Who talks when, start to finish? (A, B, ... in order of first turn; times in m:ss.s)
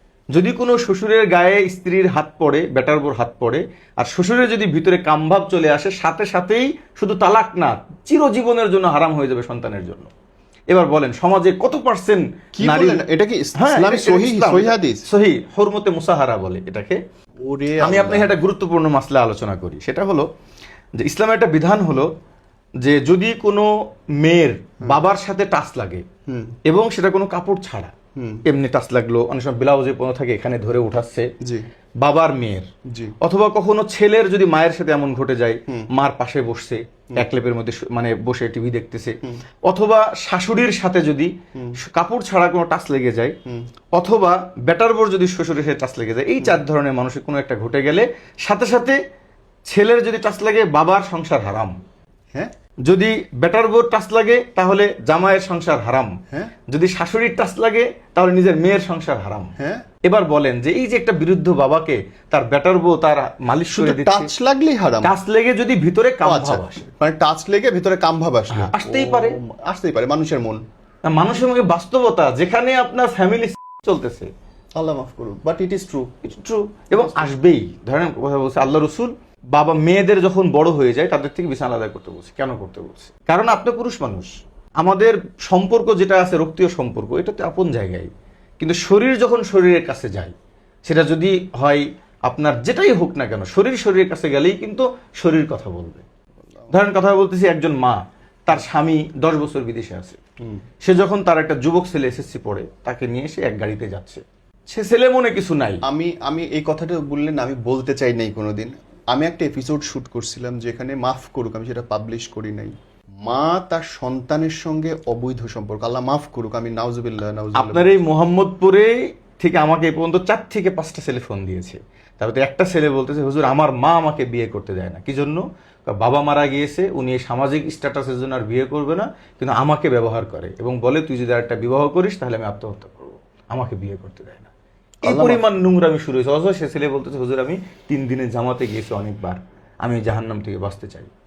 0:00.3-0:10.1 A
0:10.7-0:13.0 A
0:12.6-0:15.0 B
0:13.6-0:17.0 A
0:17.4-0:18.3 B
0:17.8-0:20.3 A
0:21.0-0:22.1 A
0:22.8-0:23.7 A
0:24.2-0:26.0 A
0:26.3-0:26.6 B
0:26.6-0:27.9 A
0:28.2-0:28.4 B
0:28.4-0:31.3 A
0:32.0-0:32.7 A
0:32.9-0:33.2 B
0:33.2-0:43.3 A
0:43.9-0:49.0 A
0:49.7-0:51.8 A
0:52.9-1:04.3 A
0:59.6-0:59.8 B
1:03.7-1:05.1 B
1:05.0-1:06.9 A
1:06.2-1:10.6 B
1:08.5-1:09.4 A
1:11.1-1:14.3 A
1:14.8-1:16.1 B
1:16.2-1:28.1 A
1:17.0-1:17.3 B
1:28.6-1:30.3 A
1:30.8-1:36.0 A
1:36.7-1:40.2 A
1:40.8-1:45.8 A
1:45.8-1:52.7 B
1:53.2-1:58.0 B
1:57.6-2:14.5 A
2:15.0-2:15.4 B
2:15.0-2:21.1 A